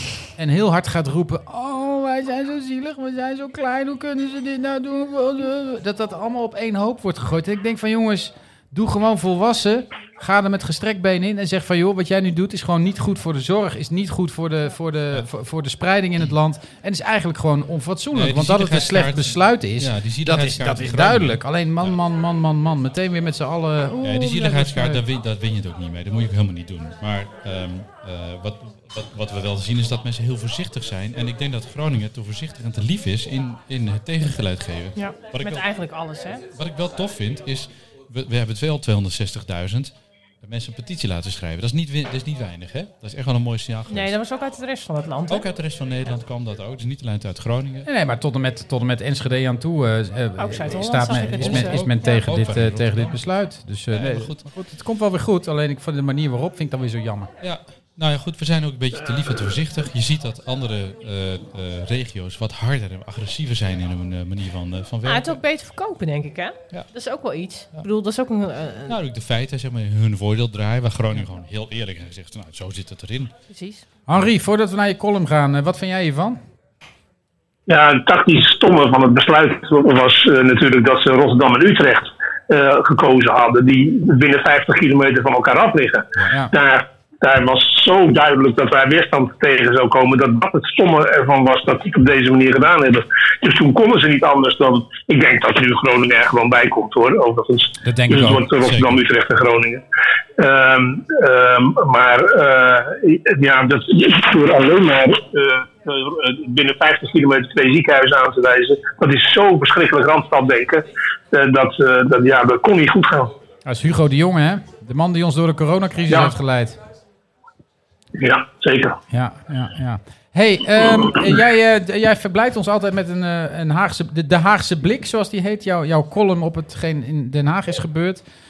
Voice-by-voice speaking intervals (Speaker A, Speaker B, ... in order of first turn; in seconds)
Speaker A: 0.3-25.0, 47.9-57.3, 74.1-76.4, 97.8-98.5, 113.6-116.8, 119.1-128.2
Speaker B: 18.1-21.9, 24.0-35.7, 36.5-44.1, 45.3-47.9, 51.3-53.2, 53.9-54.5, 57.4-65.4, 68.9-73.3, 98.6-99.0
Speaker C: 35.0-36.5, 43.9-45.5, 50.4-52.2, 65.0-69.0, 73.5-73.8
Speaker D: 77.7-99.8, 100.4-113.3, 118.2-119.0